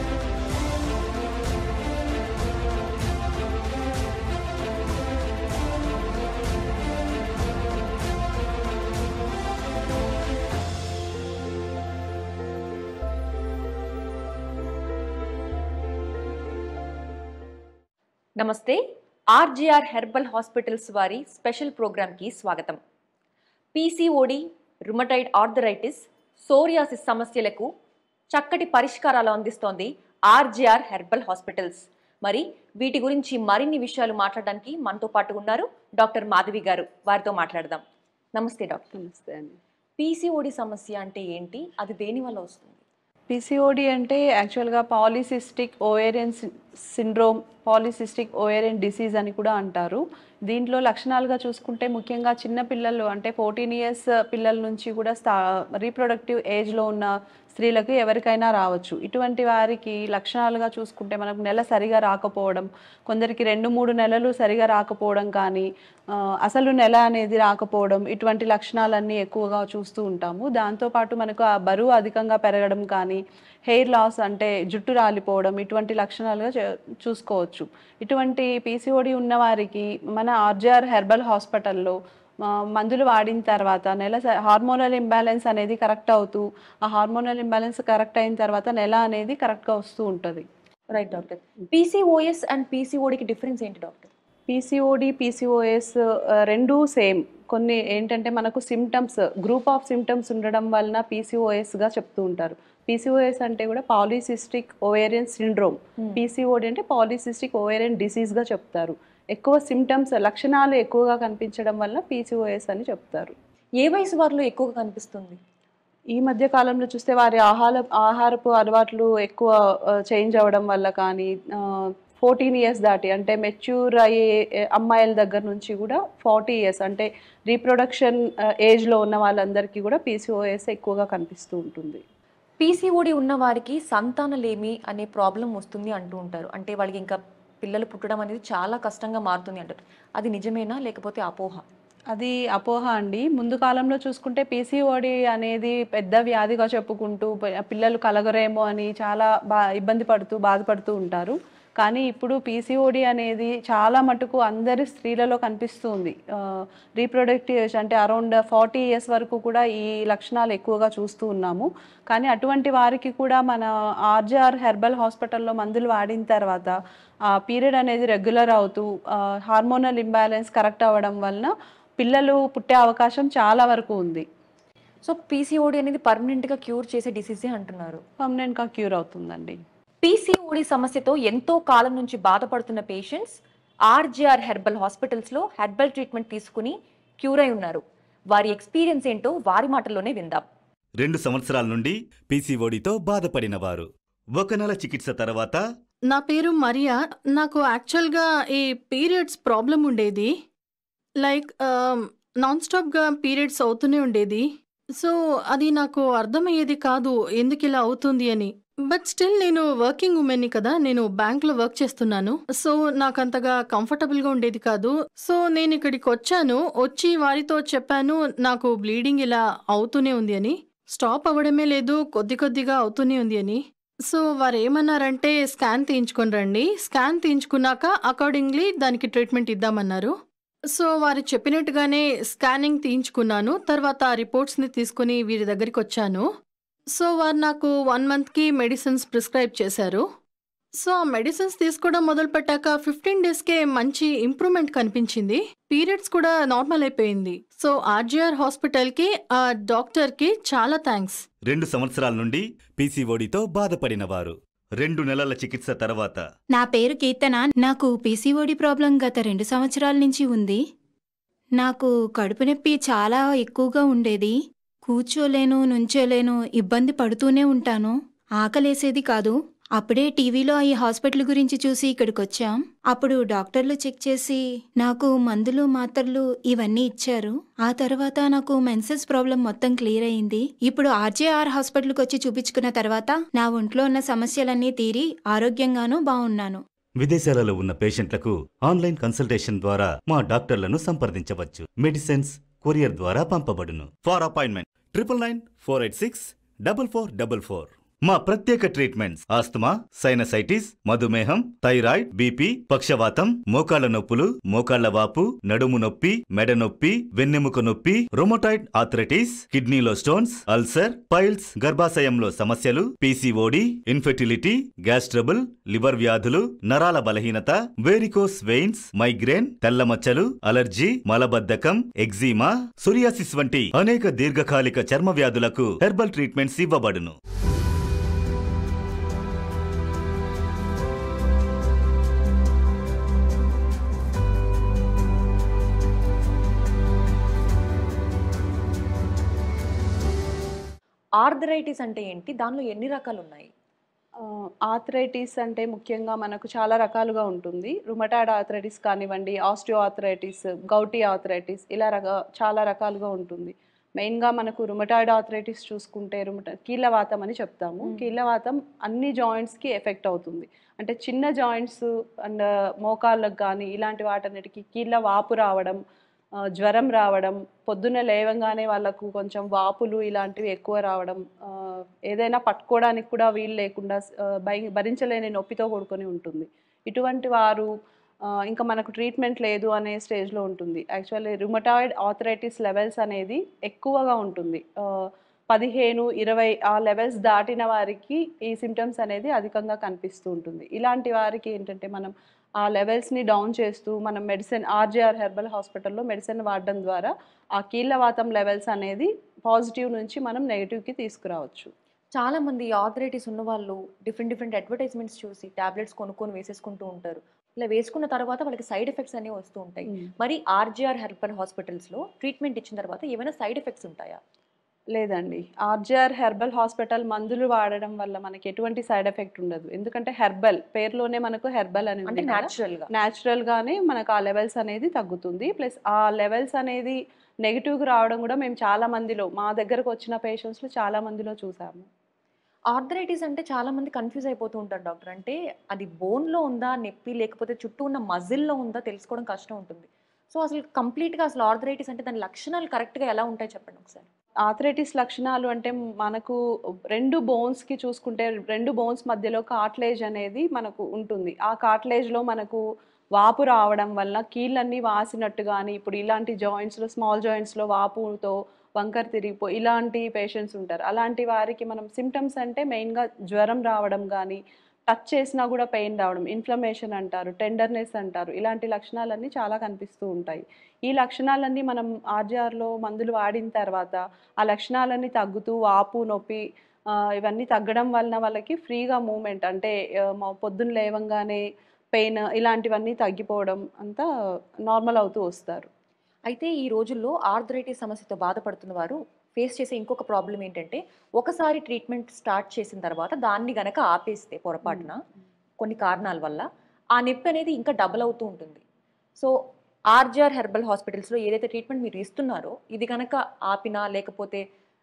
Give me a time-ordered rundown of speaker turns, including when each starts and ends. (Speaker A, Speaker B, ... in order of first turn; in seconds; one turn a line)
Speaker A: 18.4-22.8
Speaker A: 23.7-27.7
Speaker A: 28.3-37.8
Speaker A: 38.4-38.9
Speaker B: 38.9-39.6
Speaker A: 40.0-42.8
Speaker B: 43.3-90.5
Speaker A: 90.9-94.1
Speaker B: 94.5-113.3
Speaker A: 113.8-115.4
Speaker B: 116.1-119.5
Speaker B: 120.1-132.0
Speaker A: 132.6-141.6
Speaker B: 142.1-166.7
Speaker B: 167.3-174.2
Speaker A: 175.0-178.0
Speaker B: 178.2-179.6
Speaker A: 180.0-190.4
Speaker C: 191.0-195.6
Speaker D: 196.1-200.3
Speaker D: 201.2-230.1
Speaker D: 230.7-236.2
Speaker D: 236.9-240.0
Speaker D: 240.8-251.2
Speaker C: 251.5-256.2
Speaker E: 256.5-260.6
Speaker E: 261.6-264.4
Speaker E: 264.9-286.6
Speaker C: 287.0-327.1
Speaker A: 341.2-343.5
Speaker B: 344.2-365.8
Speaker A: 357.8-358.1
Speaker B: 366.6-377.7
Speaker B: 378.3-401.7
Speaker A: 402.1-414.2
Speaker B: 414.9-431.9
Speaker A: 422.1-422.9
Speaker A: 432.7-444.1
Speaker B: 444.5-446.4
Speaker B: 446.9-452.6
Speaker B: 453.1-484.1
Speaker B: 484.7-485.7
Speaker A: 486.3-495.0
Speaker A: 495.6-498.6
Speaker A: 499.9-504.4